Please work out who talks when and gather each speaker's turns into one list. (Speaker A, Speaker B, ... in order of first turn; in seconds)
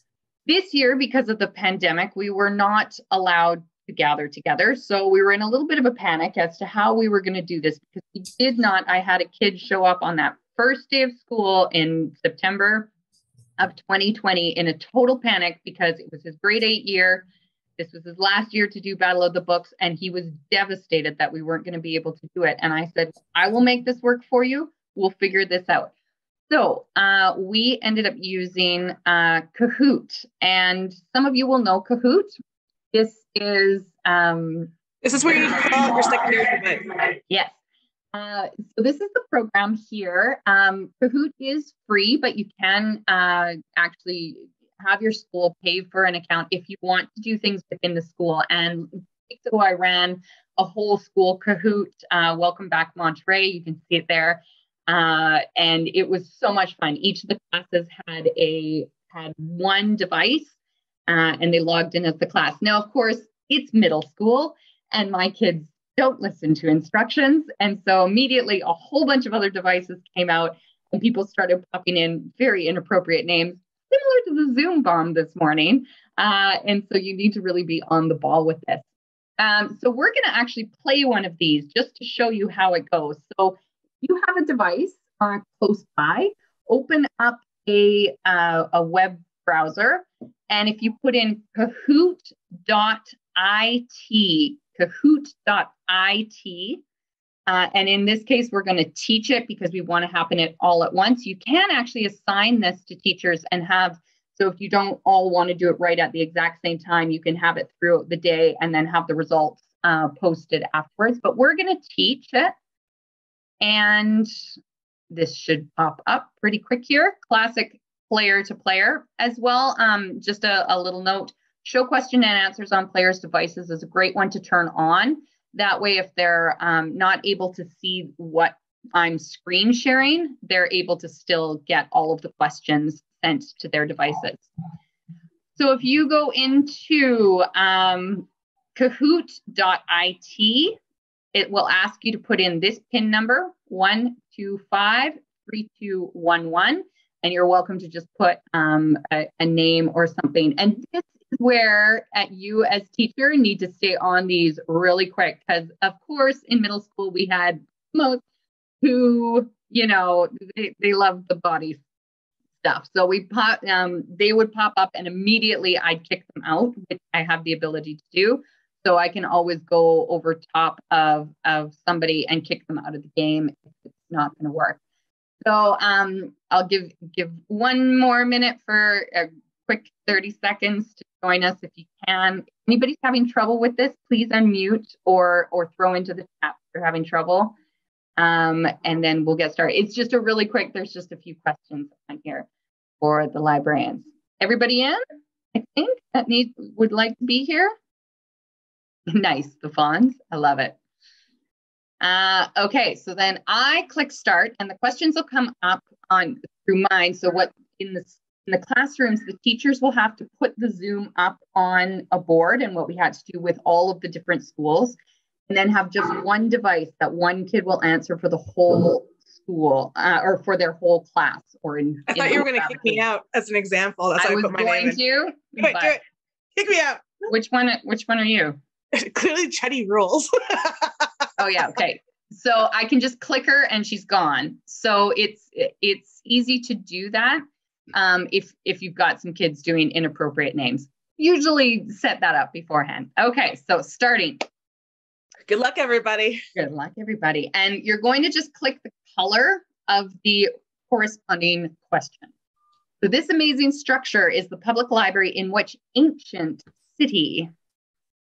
Speaker A: 0.5-12.9, 13.6-17.2, 17.8-25.9, 26.5-32.3, 32.9-34.7, 37.3-37.5, 38.1-60.5, 61.1-78.8, 79.4-96.8, 97.5-112.5, 113.6-114.3, 115.1-134.5, 135.6-140.8, 141.3-158.2, 158.8-161.8, 162.6-174.8, 175.4-187.5, 188.2-192.5, 193.0-195.0, 195.5-197.7, 199.1-200.8, 202.0-214.9, 215.5-223.0, 224.2-226.0, 227.3-228.6, 231.4-244.5, 246.6-252.3, 253.0-257.5
Speaker B: 35.0-36.9, 222.1-225.0, 225.6-226.0, 226.6-227.0, 228.9-231.1, 245.5-246.4